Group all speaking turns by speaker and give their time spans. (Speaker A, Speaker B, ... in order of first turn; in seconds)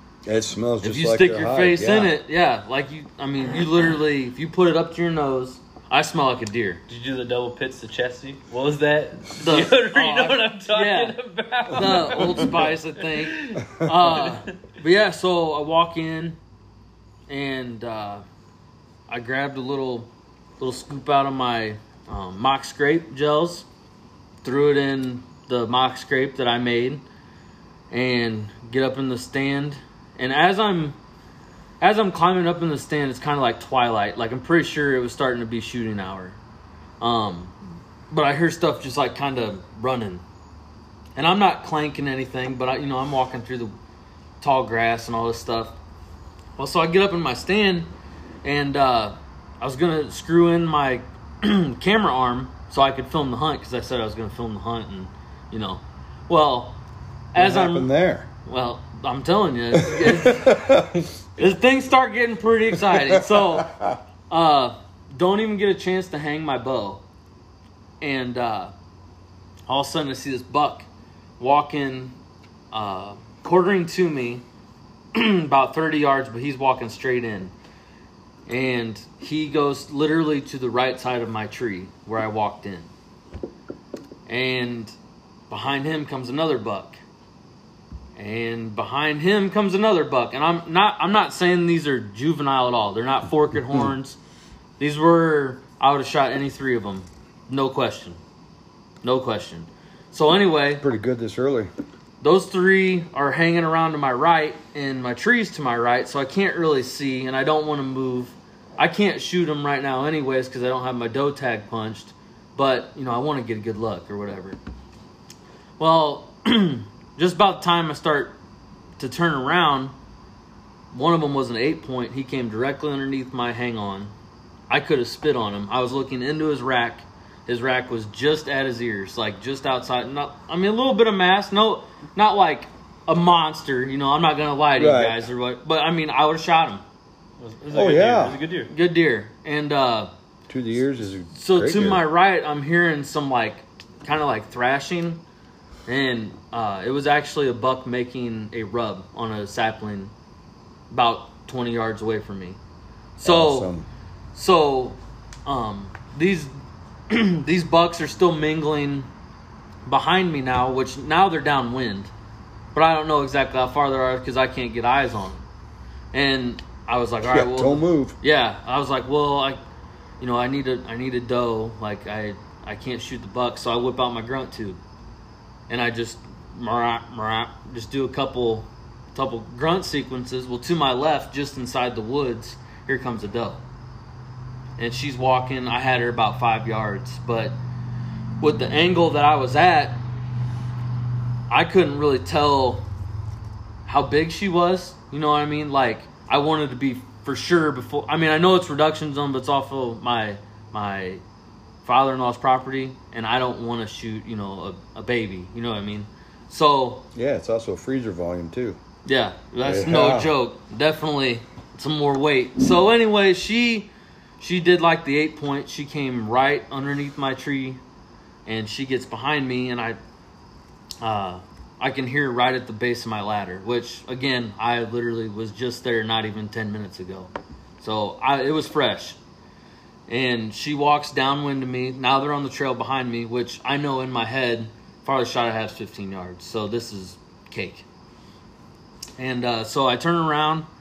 Speaker A: 0.2-2.1, 11.8-12.5, 57.4-58.3, 59.7-61.1, 62.8-64.0, 100.8-101.7, 134.8-135.3, 137.7-138.4, 140.5-142.0, 153.2-153.9, 167.2-168.2, 207.1-208.8, 209.6-210.3
Speaker B: 0.8-6.8, 9.4-16.4, 17.3-18.2, 19.1-23.6, 24.4-27.0, 27.9-31.0, 31.8-36.4, 37.0-37.5, 38.1-40.2, 41.1-43.7, 44.4-45.8, 46.6-47.9, 48.4-56.8, 57.3-57.9, 58.5-60.6, 61.4-63.7, 64.3-67.0, 68.0-68.7, 69.7-70.9, 71.4-72.2, 72.7-74.4, 75.1-77.5, 78.5-82.9, 84.3-84.9, 85.5-87.0, 88.2-94.2, 94.8-98.2, 99.0-100.8, 102.2-114.6, 115.8-118.4, 119.0-119.9, 120.9-124.1, 124.7-136.8, 138.7-140.1, 141.3-145.2, 145.9-150.1, 150.9-152.6, 153.2-153.7, 154.3-156.5, 157.1-159.1, 159.8-162.1, 162.7-165.4, 166.1-169.6, 170.2-174.8, 175.7-183.6, 184.8-187.6, 188.4-190.0, 191.5-192.8, 193.8-201.2, 201.8-207.0, 209.0-217.8, 218.4-220.0, 221.0-229.2, 230.1-237.8, 239.2-240.7
Speaker C: 6.9-14.4, 137.4-138.7